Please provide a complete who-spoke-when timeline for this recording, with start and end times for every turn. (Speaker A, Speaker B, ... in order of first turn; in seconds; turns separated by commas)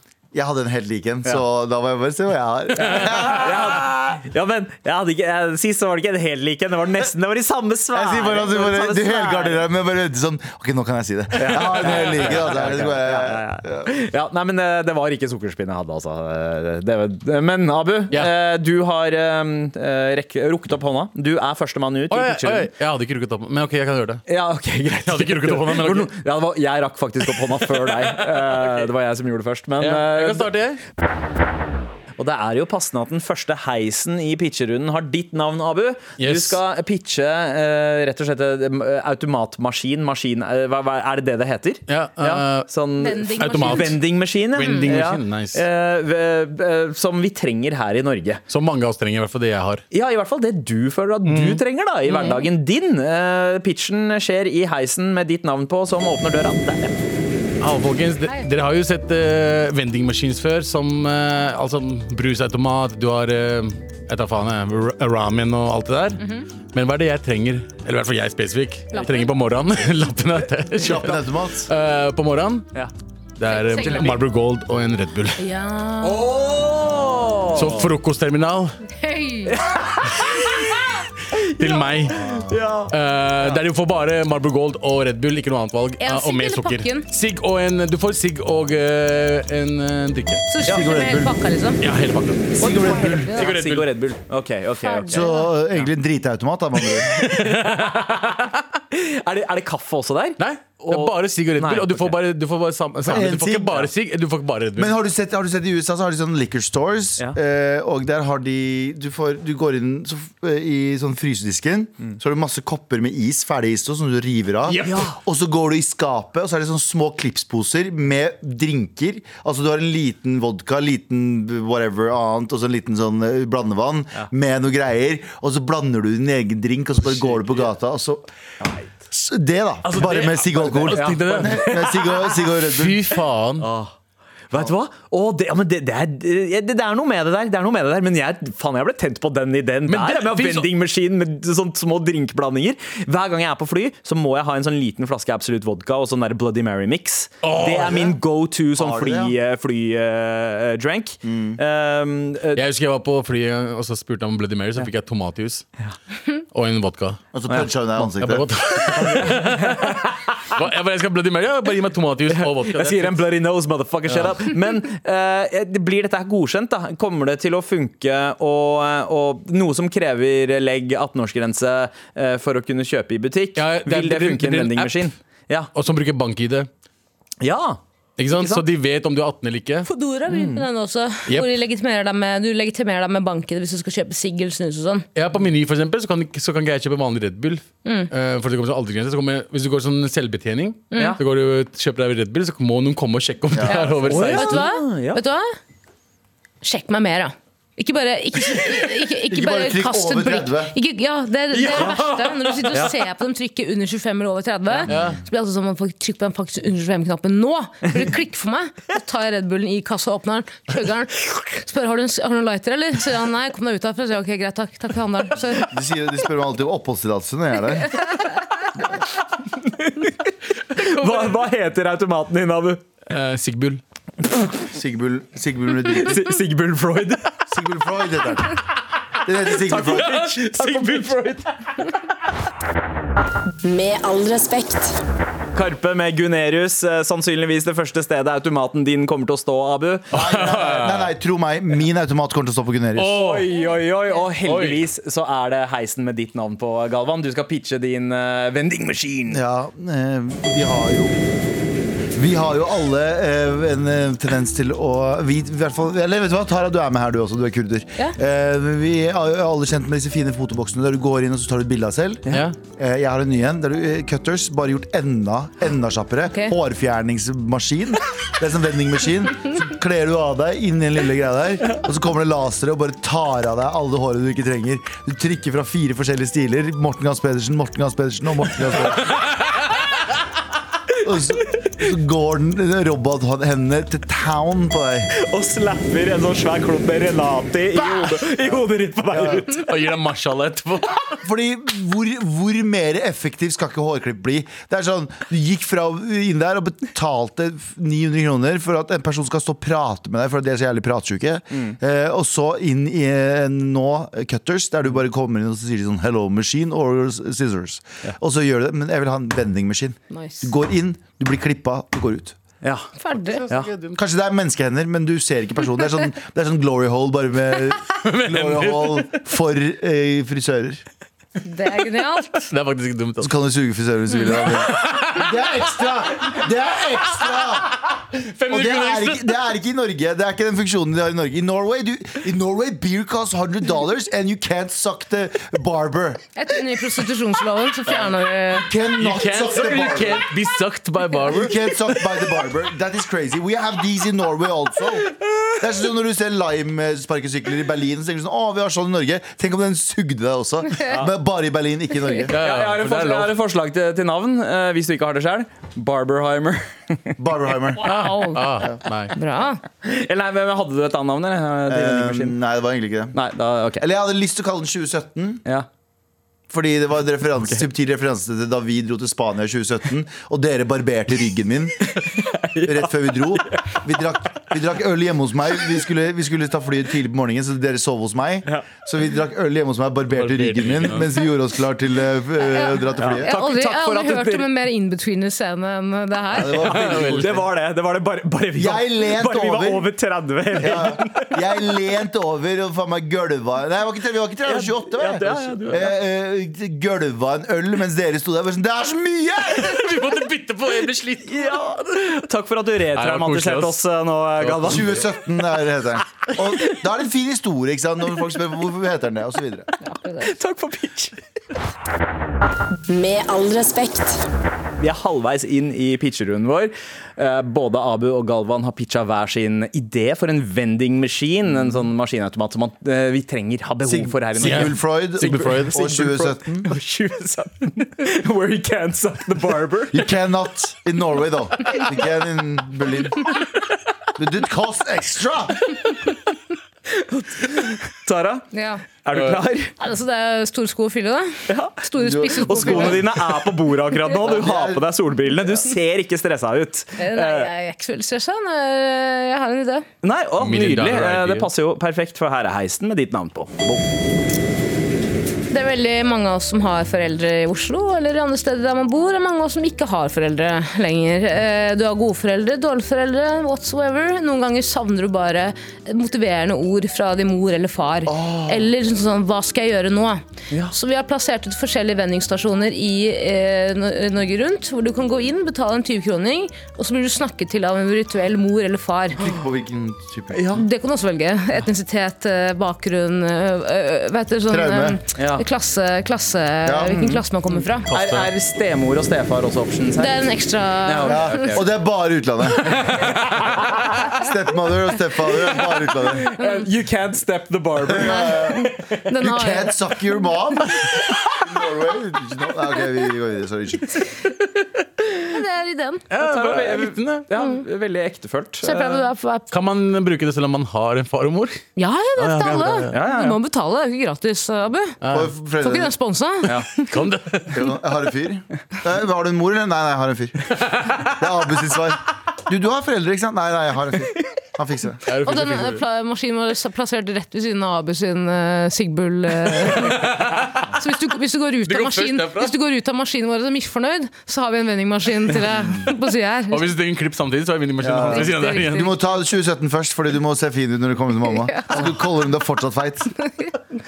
Speaker A: 0.3-3.9, Speaker B: 2.8-9.7, Speaker A: 7.9-13.9, Speaker B: 11.4-22.7, Speaker C: 11.5-12.3, Speaker C: 22.1-24.2, Speaker B: 24.3-30.5, Speaker C: 25.0-26.1, Speaker C: 28.3-28.9, Speaker C: 29.8-30.8, Speaker B: 32.2-48.4, Speaker C: 36.2-36.6, Speaker C: 41.9-42.7, Speaker D: 43.0-44.0, Speaker C: 43.2-45.6, Speaker D: 44.6-44.9, Speaker C: 48.5-49.8, Speaker B: 49.9-56.9, Speaker C: 51.2-51.6, Speaker D: 52.1-52.5, Speaker C: 57.6-66.2, Speaker D: 66.2-66.5, Speaker C: 66.7-72.7, Speaker D: 68.9-69.2, Speaker A: 70.8-71.7, Speaker C: 73.4-75.4, Speaker D: 73.4-74.2, Speaker B: 73.8-74.2, Speaker D: 75.4-76.2, Speaker B: 76.0-77.9, Speaker C: 77.5-78.7, Speaker D: 79.0-79.5, Speaker B: 79.5-80.8, Speaker C: 80.2-80.5, Speaker B: 81.3-83.6, Speaker C: 81.5-82.2, Speaker A: 82.1-82.6, Speaker C: 82.9-90.4, Speaker D: 86.0-87.0, Speaker D: 90.5-91.8, Speaker A: 90.7-91.3, Speaker C: 91.8-93.9, Speaker A: 92.6-93.3, Speaker B: 92.6-95.9, Speaker D: 93.0-93.4, Speaker D: 94.8-95.5, Speaker A: 95.1-97.2, Speaker C: 97.1-98.0, Speaker B: 97.1-102.2, Speaker C: 100.4-105.0, Speaker A: 103.0-103.9, Speaker A: 104.8-128.2, Speaker C: 114.7-115.1, Speaker B: 114.8-115.2, Speaker B: 127.2-127.6, Speaker B: 128.6-128.9, Speaker A: 129.1-133.0, Speaker C: 129.8-132.0, Speaker B: 130.8-132.4, Speaker C: 132.6-133.7, Speaker B: 133.6-133.9, Speaker B: 134.5-152.6, Speaker C: 139.8-140.7, Speaker C: 147.4-148.2, Speaker A: 148.7-149.3, Speaker A: 151.2-151.6, Speaker C: 152.5-155.7, Speaker C: 156.5-157.2, Speaker A: 157.3-158.5, Speaker C: 158.0-160.0, Speaker B: 158.8-160.4, Speaker C: 160.5-163.2, Speaker B: 162.3-175.7, Speaker C: 164.1-164.4, Speaker C: 173.6-175.1, Speaker C: 175.7-176.7, Speaker B: 177.4-178.6, Speaker C: 178.2-179.9, Speaker D: 179.8-185.0, Speaker B: 180.3-180.6, Speaker C: 185.1-194.6, Speaker D: 187.8-188.1, Speaker D: 190.9-191.2, Speaker A: 193.5-193.9, Speaker D: 193.7-195.5, Speaker B: 194.1-195.2, Speaker D: 196.6-215.7, Speaker A: 199.3-200.7, Speaker C: 201.6-202.9, Speaker B: 201.7-202.0, Speaker C: 204.9-205.2, Speaker A: 215.7-218.0, Speaker B: 219.6-222.8, Speaker C: 220.8-221.4, Speaker C: 223.1-223.8, Speaker A: 224.7-226.3, Speaker B: 225.9-227.3, Speaker A: 227.5-228.6, Speaker A: 229.2-230.2, Speaker B: 229.5-231.4, Speaker C: 229.7-231.4, Speaker E: 233.6-235.0, Speaker B: 235.5-240.1, Speaker C: 240.1-241.1, Speaker A: 240.1-243.2, Speaker C: 242.9-243.5, Speaker B: 243.2-249.4, Speaker D: 243.5-244.2, Speaker C: 244.4-244.9, Speaker A: 249.3-251.2, Speaker A: 252.1-279.1, Speaker C: 262.3-262.6, Speaker D: 266.3-266.5, Speaker A: 281.0-285.1, Speaker B: 285.2-289.6, Speaker A: 287.7-288.6, Speaker A: 289.1-289.4, Speaker C: 289.5-291.2, Speaker A: 291.2-312.4, Speaker D: 310.1-310.5, Speaker B: 312.6-312.9, Speaker D: 313.0-313.4, Speaker C: 313.1-314.0, Speaker A: 313.9-320.8, Speaker C: 318.0-319.1, Speaker D: 321.4-322.5, Speaker C: 322.5-323.3, Speaker A: 323.2-327.9, Speaker C: 324.5-325.3, Speaker C: 327.2-329.3, Speaker A: 328.5-336.2, Speaker D: 336.4-338.7, Speaker A: 338.5-340.3, Speaker C: 339.0-342.4, Speaker A: 341.2-352.4, Speaker C: 352.3-353.3, Speaker B: 352.3-357.2, Speaker A: 357.2-357.8, Speaker D: 357.8-358.6, Speaker C: 357.8-359.1, Speaker D: 359.1-359.6, Speaker B: 359.8-362.3, Speaker A: 361.7-363.1, Speaker B: 363.1-363.8, Speaker A: 363.8-365.4, Speaker A: 366.5-371.9, Speaker B: 371.8-373.8, Speaker A: 372.6-383.3, Speaker C: 380.1-381.2, Speaker D: 382.4-386.7, Speaker B: 383.0-384.5, Speaker A: 386.3-387.4, Speaker B: 386.4-391.4, Speaker C: 386.6-387.4, Speaker A: 388.6-389.9, Speaker A: 390.6-399.9, Speaker B: 394.4-395.9, Speaker C: 399.6-402.0, Speaker B: 401.2-405.0, Speaker C: 402.9-403.8, Speaker C: 404.4-405.0, Speaker A: 404.6-409.7, Speaker D: 409.8-410.3, Speaker B: 410.2-411.2, Speaker E: 412.9-414.2, Speaker B: 414.8-430.1, Speaker A: 423.8-426.7, Speaker C: 424.4-425.9, Speaker A: 429.9-433.4, Speaker A: 434.1-435.6, Speaker B: 436.9-438.5, Speaker D: 438.5-438.8, Speaker B: 439.0-439.7, Speaker C: 439.1-439.4, Speaker D: 439.8-443.0, Speaker B: 441.5-441.8, Speaker A: 442.0-443.1, Speaker B: 442.4-447.5, Speaker A: 444.1-444.9, Speaker D: 447.0-449.9, Speaker B: 450.0-453.8, Speaker C: 450.4-451.5, Speaker D: 455.5-479.3, Speaker A: 468.0-468.7, Speaker A: 479.2-480.5, Speaker B: 480.3-480.6, Speaker D: 480.5-487.9, Speaker A: 484.5-485.0, Speaker B: 485.1-485.4, Speaker A: 486.6-487.2, Speaker C: 487.9-488.3, Speaker B: 487.9-490.2, Speaker D: 489.9-491.6, Speaker B: 490.8-491.7, Speaker A: 491.0-493.0, Speaker C: 492.7-493.1, Speaker B: 492.9-493.9, Speaker A: 494.1-496.3, Speaker B: 496.0-499.0, Speaker D: 496.4-496.7, Speaker A: 497.8-504.0, Speaker D: 498.0-499.8, Speaker D: 505.3-506.0, Speaker C: 506.1-507.2, Speaker B: 506.2-509.0, Speaker D: 508.6-509.5, Speaker C: 509.5-511.6, Speaker D: 511.8-515.0, Speaker C: 512.2-513.0, Speaker B: 512.9-513.4, Speaker C: 515.0-515.3, Speaker A: 515.1-515.9, Speaker D: 515.6-516.9, Speaker C: 516.9-517.6, Speaker A: 517.5-525.0, Speaker C: 520.6-521.0, Speaker C: 525.1-525.8, Speaker D: 525.2-530.1, Speaker C: 529.5-530.7, Speaker D: 530.7-536.6, Speaker C: 531.6-532.5, Speaker C: 536.5-538.9, Speaker A: 537.8-543.1, Speaker D: 538.1-538.9, Speaker D: 541.3-541.8